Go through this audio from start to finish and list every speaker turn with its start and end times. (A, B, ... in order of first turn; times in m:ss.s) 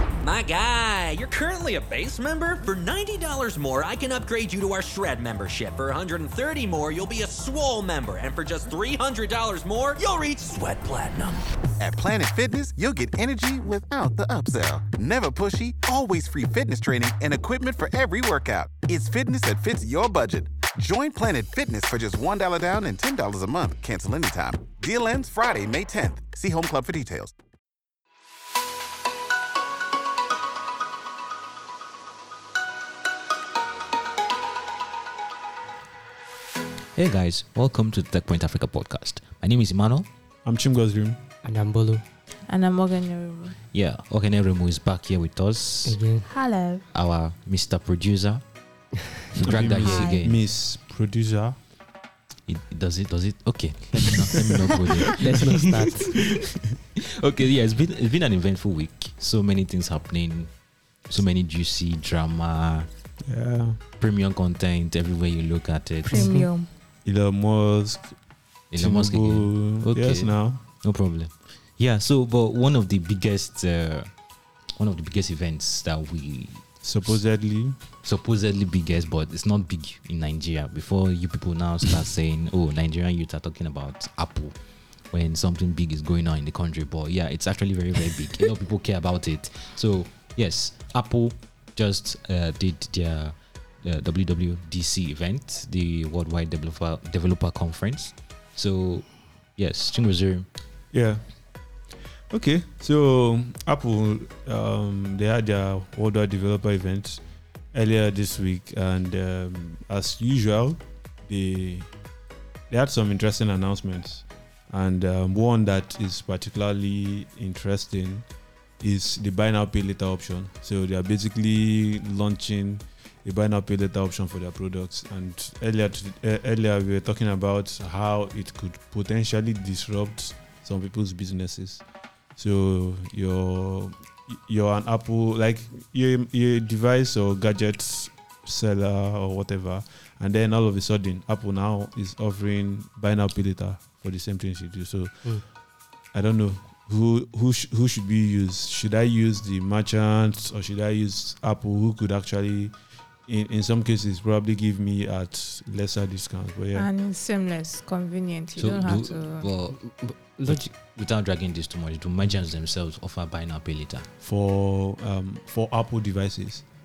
0:00.2-0:11.4 A
0:11.8-0:27.3 B
0:37.0-0:40.1 C
0:40.4-0:41.2 D
0:41.4-0:42.0 E
0:42.5-0:43.6 F
0:43.7-0:46.2 C
0:45.9-0:46.3 E
0:46.3-0:46.8 F
0:46.9-0:48.8 C
0:49.4-0:50.4 C
0:49.4-0:51.6 D
0:49.7-0:50.2 F
0:52.5-0:56.4 C
0:55.2-0:56.2 E
0:57.0-1:00.5 C
1:01.0-1:02.9 C
1:03.2-1:03.8 D
1:04.0-1:06.5 C
1:06.1-1:06.5 E
1:06.1-1:06.7 F
1:07.0-1:08.2 D
1:08.7-1:16.8 C
1:08.7-1:10.6 D
1:16.8-1:17.8 D
1:18.0-1:40.5 C
1:40.9-1:41.3 D
1:42.3-1:51.9 D
1:52.7-1:58.3 D
1:58.8-2:11.8 D
2:12.4-2:25.6 D
2:26.1-2:36.9 D
2:36.7-2:39.5 F
2:38.6-2:44.1 C
2:39.8-2:40.7 E
2:44.2-2:46.7 D